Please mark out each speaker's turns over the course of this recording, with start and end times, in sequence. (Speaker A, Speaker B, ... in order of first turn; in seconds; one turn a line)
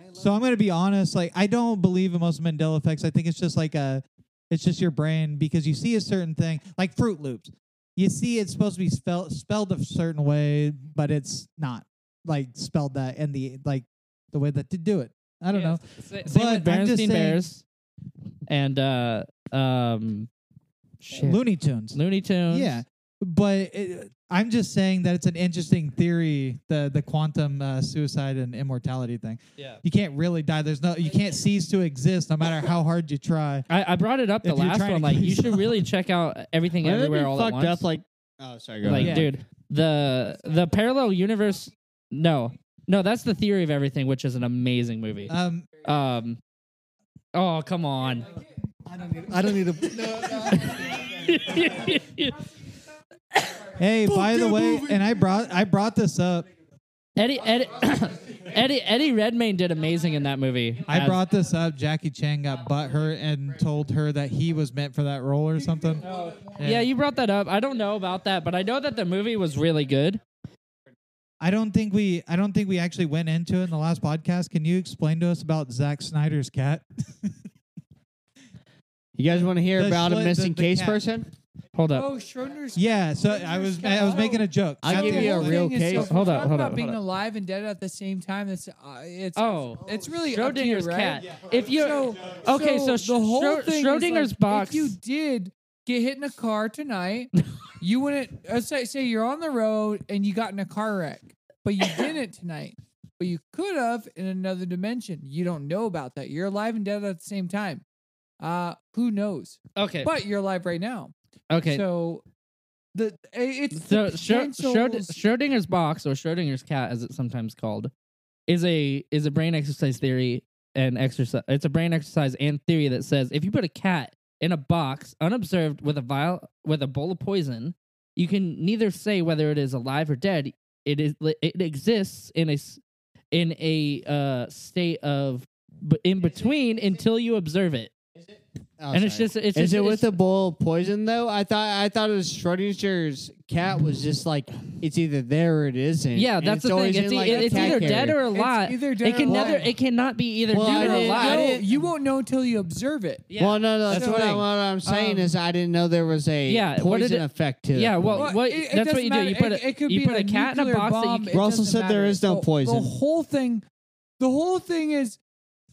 Speaker A: 0.1-17.4
Speaker B: 15.5-17.6
Speaker B: 18.5-20.3
Speaker B: 21.0-21.4
Speaker A: 21.1-33.7
Speaker B: 21.9-22.8
Speaker B: 33.7-37.8
Speaker A: 34.4-35.7
Speaker C: 36.8-39.3
Speaker B: 38.8-46.4
Speaker A: 38.9-39.3
Speaker A: 45.3-45.8
Speaker B: 47.3-48.3
Speaker D: 48.9-51.7
Speaker B: 50.3-52.4
Speaker A: 53.8-56.5
Speaker D: 54.1-55.1
Speaker B: 57.2-61.2
Speaker A: 60.9-66.1
Speaker B: 66.0-70.2
Speaker A: 66.6-66.9
Speaker A: 71.4-77.3
Speaker C: 79.2-81.3
Speaker A: 79.8-81.0
Speaker B: 81.8-82.1
Speaker E: 81.9-107.8
Speaker A: 82.8-85.8
Speaker C: 84.8-86.3
Speaker B: 85.9-87.0
Speaker B: 89.4-95.0
Speaker E: 108.4-111.1
Speaker B: 109.8-110.1
Speaker B: 111.5-111.8
Speaker E: 111.7-112.2
Speaker E: 112.9-115.2
Speaker B: 113.7-117.9
Speaker B: 118.5-132.8
Speaker B: 133.3-137.9
Speaker C: 138.2-148.2
Speaker B: 138.9-140.2
Speaker B: 146.2-151.6
Speaker E: 147.3-149.7
Speaker C: 149.2-149.6
Speaker C: 150.5-151.8
Speaker E: 150.6-153.3
Speaker B: 153.3-154.4
Speaker C: 153.4-158.3
Speaker E: 153.9-155.3
Speaker B: 156.5-161.4
Speaker E: 158.2-163.7
Speaker C: 161.3-162.9
Speaker E: 164.2-165.2